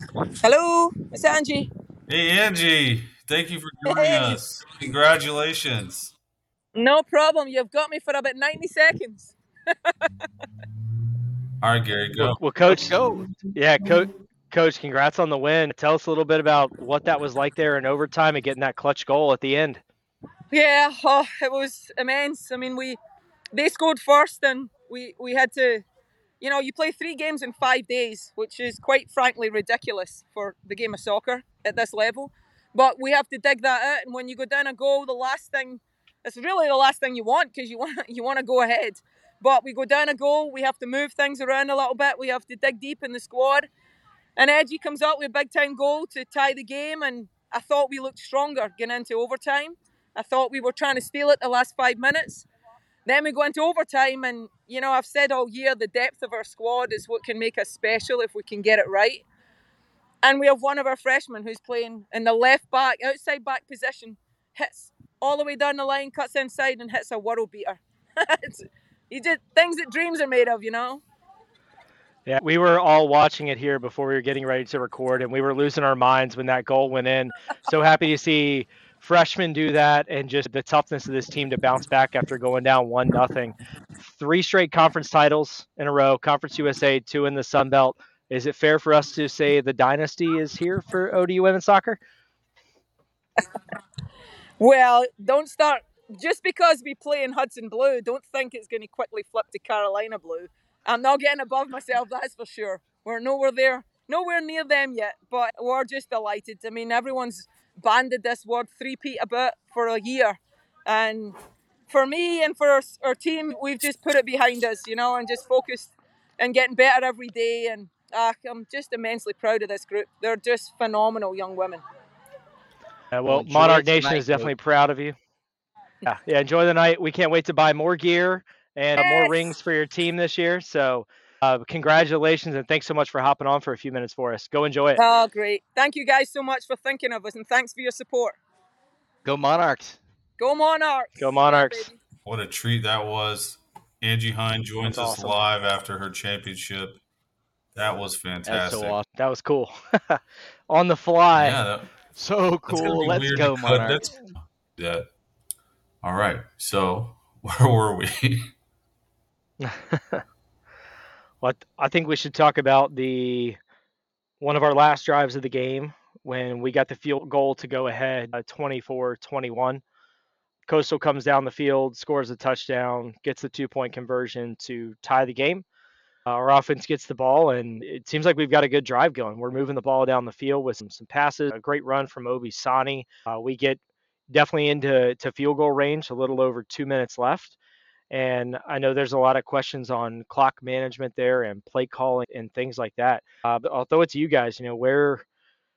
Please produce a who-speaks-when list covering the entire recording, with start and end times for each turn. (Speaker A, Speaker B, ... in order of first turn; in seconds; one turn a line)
Speaker A: 0.4-1.7
Speaker B: 2.1-6.1
Speaker A: 3.9-4.6
Speaker A: 6.7-10.3
Speaker B: 11.6-12.4
Speaker C: 12.2-12.9
Speaker D: 12.7-13.2
Speaker C: 13.5-19.8
Speaker A: 20.5-23.0
Speaker A: 23.5-25.8
Speaker A: 26.4-43.7
Speaker A: 44.4-52.5
Speaker A: 53.0-59.2
Speaker A: 60.2-71.0
Speaker C: 72.2-92.0
Speaker A: 94.6-111.3
Speaker A: 111.9-121.8
Speaker C: 123.1-125.2
Speaker D: 123.2-124.5
Speaker C: 126.0-135.0
Speaker A: 129.0-129.4
Speaker A: 134.9-138.4
Speaker D: 139.2-140.0
Speaker A: 140.4-142.0
Speaker C: 141.2-141.9
Speaker B: 142.2-147.0
Speaker C: 144.8-145.4
Speaker B: 147.7-149.0
Speaker D: 148.4-149.1
Speaker C: 149.2-151.6
Speaker B: 151.3-151.9
Speaker D: 152.1-154.1
Speaker B: 152.7-155.0
Speaker B: 156.0-158.5
Speaker C: 159.6-160.2
Speaker C: 161.4-163.6
Speaker C: 164.4-169.8
Speaker C: 170.7-175.6
Speaker C: 176.3-187.6
Speaker C: 188.1-195.2